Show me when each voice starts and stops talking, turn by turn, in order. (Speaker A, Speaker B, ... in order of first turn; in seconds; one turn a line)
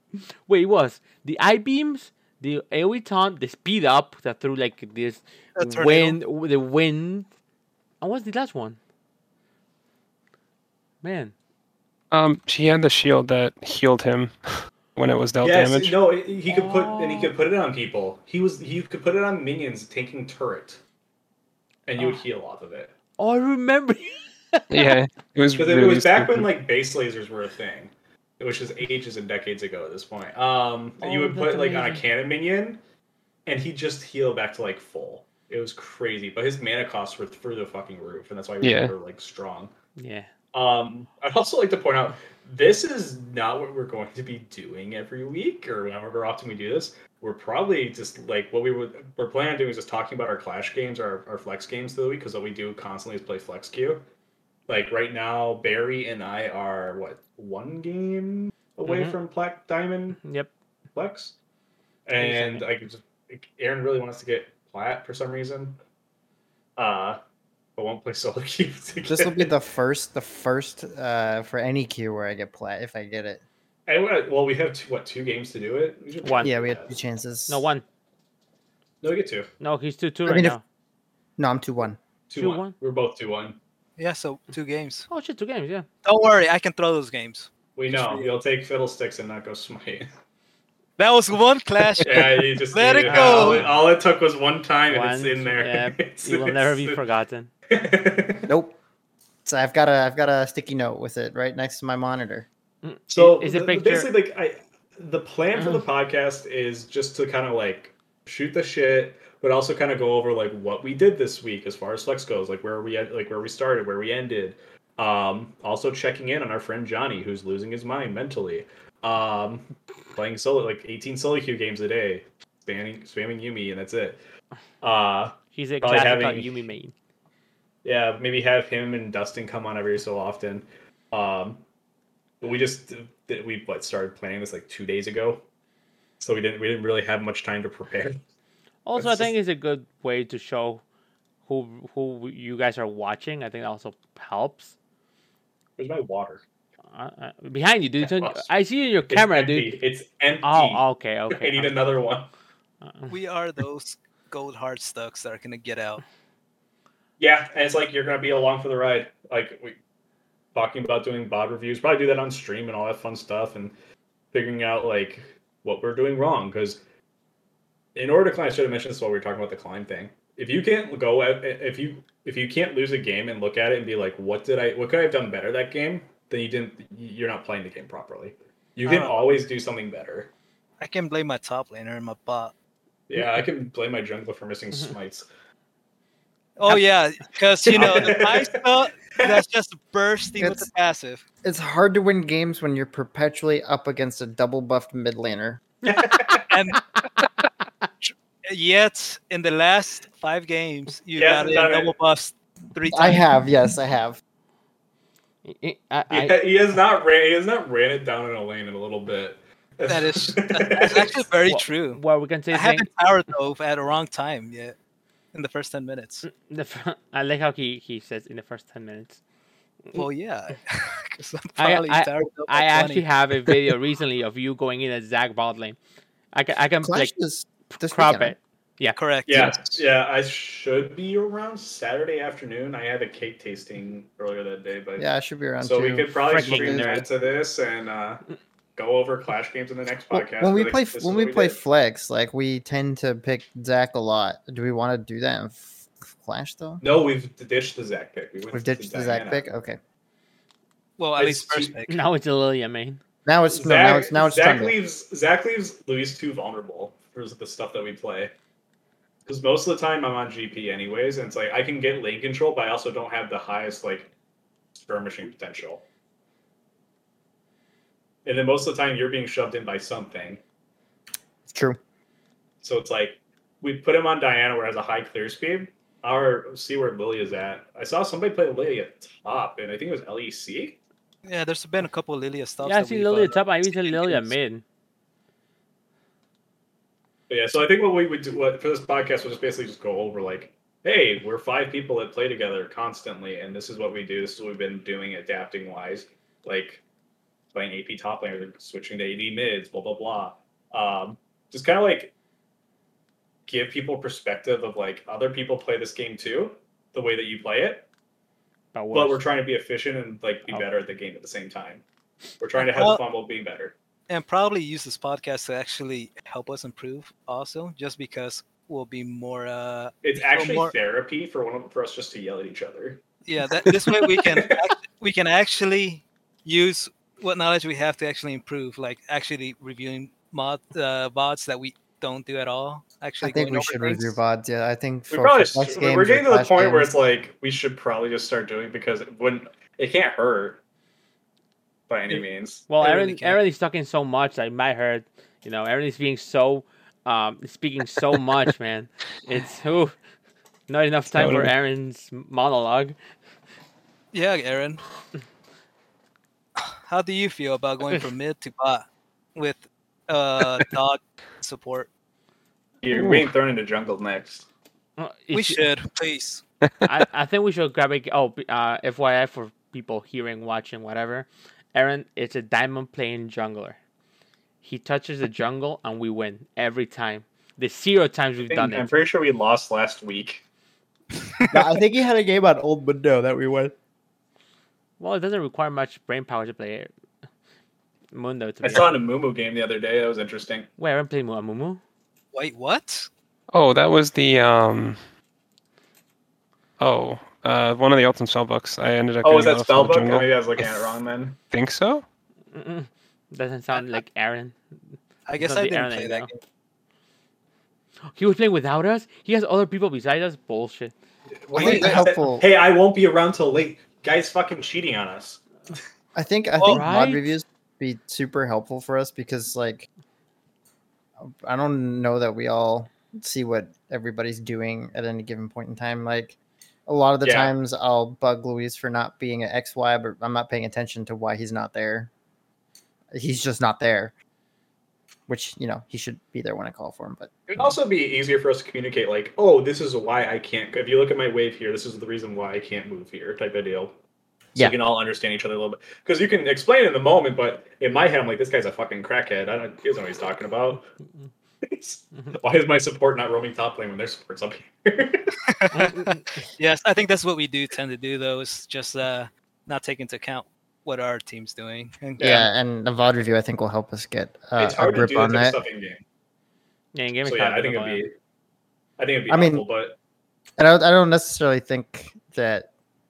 Speaker A: 0.5-7.3
Speaker B: 5.6-6.2
Speaker A: 8.0-8.8
Speaker A: 11.0-11.3
Speaker C: 12.1-16.0
Speaker D: 15.4-20.8
Speaker A: 16.5-17.3
Speaker D: 21.9-22.9
Speaker A: 22.0-22.2
Speaker A: 23.2-24.9
Speaker C: 24.7-26.5
Speaker D: 25.6-32.8
Speaker A: 31.0-32.0
Speaker D: 33.5-39.7
Speaker C: 38.6-38.9
Speaker A: 40.0-40.3
Speaker D: 40.5-54.0
Speaker D: 54.7-60.2
Speaker A: 58.9-59.2
Speaker A: 60.2-60.5
Speaker D: 60.9-61.4
Speaker D: 62.1-65.8
Speaker A: 62.2-62.6
Speaker D: 66.8-67.2
Speaker D: 67.8-69.5
Speaker E: 69.1-73.4
Speaker D: 73.9-76.9
Speaker A: 76.2-76.5
Speaker E: 76.4-77.7
Speaker A: 77.5-77.8
Speaker D: 79.0-79.5
Speaker A: 79.6-80.6
Speaker E: 80.3-80.6
Speaker E: 81.4-82.0
Speaker D: 82.3-83.6
Speaker A: 82.3-82.8
Speaker B: 84.0-85.1
Speaker A: 85.1-85.9
Speaker B: 86.0-88.3
Speaker D: 87.8-90.1
Speaker B: 91.0-93.7
Speaker D: 92.0-97.0
Speaker A: 93.1-93.8
Speaker A: 94.9-97.5
Speaker D: 97.7-98.5
Speaker E: 98.5-98.8
Speaker E: 99.5-102.5
Speaker A: 102.8-104.1
Speaker D: 103.1-124.2
Speaker A: 105.6-105.8
Speaker D: 124.8-126.7
Speaker A: 125.5-126.9
Speaker D: 127.8-131.6
Speaker D: 132.4-135.4
Speaker D: 136.2-138.2
Speaker A: 138.9-140.8
Speaker D: 139.0-139.3
Speaker A: 141.5-144.7
Speaker D: 145.8-146.4
Speaker A: 146.9-149.8
Speaker D: 148.0-148.5
Speaker D: 149.1-152.3
Speaker A: 150.4-151.8
Speaker A: 152.8-153.2
Speaker B: 153.1-156.0
Speaker D: 157.2-159.8
Speaker D: 160.5-163.7
Speaker D: 164.3-166.8
Speaker D: 167.9-180.3
Speaker B: 178.8-179.2
Speaker B: 180.8-182.5
Speaker D: 183.1-185.3
Speaker B: 186.6-191.2
Speaker A: 187.7-188.0
Speaker D: 187.8-189.4
Speaker E: 190.4-190.7
Speaker E: 191.4-195.6
Speaker D: 195.8-196.6
Speaker B: 196.5-196.8
Speaker B: 198.0-203.3
Speaker D: 201.2-201.9
Speaker E: 202.9-204.2
Speaker A: 205.4-206.5
Speaker D: 206.1-211.3
Speaker B: 209.9-212.0
Speaker A: 211.5-212.9
Speaker B: 212.5-214.8
Speaker B: 215.3-216.2
Speaker A: 216.2-219.2
Speaker B: 219.9-223.1
Speaker A: 221.6-225.8
Speaker A: 226.3-227.1
Speaker E: 226.8-228.4
Speaker A: 227.7-229.5
Speaker B: 228.9-229.7
Speaker D: 229.3-235.1
Speaker E: 235.0-236.9
Speaker D: 235.6-238.2
Speaker A: 236.3-237.1
Speaker D: 238.8-241.6
Speaker E: 240.1-246.8
Speaker D: 246.8-249.5
Speaker E: 248.5-249.8
Speaker B: 251.0-252.0
Speaker D: 251.2-251.7
Speaker A: 251.9-253.0
Speaker E: 253.3-254.8
Speaker D: 253.5-258.3
Speaker D: 259.3-264.1
Speaker D: 264.8-265.8
Speaker D: 268.2-270.4
Speaker E: 271.5-271.8
Speaker D: 272.6-280.8
Speaker B: 281.2-284.4
Speaker A: 282.6-284.6
Speaker D: 287.3-296.8
Speaker D: 297.5-302.1
Speaker D: 303.5-307.9
Speaker A: 308.7-309.2
Speaker D: 308.9-311.8
Speaker D: 312.4-313.8
Speaker B: 312.6-313.0
Speaker B: 314.1-320.7
Speaker D: 320.0-323.0
Speaker B: 323.2-334.2
Speaker D: 323.5-324.7
Speaker E: 333.2-336.9
Speaker D: 335.1-340.6
Speaker D: 341.9-342.7
Speaker A: 342.7-349.9
Speaker B: 342.8-343.4
Speaker A: 350.7-353.0
Speaker C: 351.1-351.5
Speaker B: 354.1-354.8
Speaker B: 356.6-361.9
Speaker D: 362.8-364.5
Speaker C: 362.9-363.3
Speaker A: 365.0-365.7
Speaker B: 365.3-366.4
Speaker A: 366.9-373.8
Speaker A: 374.6-378.9
Speaker D: 378.4-380.4
Speaker E: 381.5-383.7
Speaker A: 385.0-386.9
Speaker A: 388.1-388.9
Speaker D: 388.6-390.7
Speaker A: 390.8-391.8
Speaker B: 392.3-393.1
Speaker C: 393.5-395.0
Speaker C: 396.8-400.9
Speaker D: 399.2-401.4
Speaker C: 401.5-402.1
Speaker A: 402.5-404.6
Speaker B: 405.3-406.4
Speaker A: 405.4-406.3
Speaker A: 408.1-410.9
Speaker D: 411.4-415.4
Speaker B: 411.6-412.0
Speaker E: 411.6-412.4
Speaker E: 416.1-419.9
Speaker A: 416.7-417.4
Speaker E: 421.2-432.1
Speaker D: 427.2-427.5
Speaker E: 433.1-434.1
Speaker E: 435.3-437.3
Speaker D: 437.5-443.9
Speaker D: 444.6-450.9
Speaker D: 451.6-455.3
Speaker B: 455.4-462.4
Speaker A: 455.7-456.4
Speaker D: 462.2-462.5
Speaker E: 462.2-465.6
Speaker D: 464.6-466.0
Speaker A: 466.9-468.0
Speaker D: 467.2-468.1
Speaker D: 469.0-470.0
Speaker E: 469.3-469.7
Speaker E: 470.6-472.7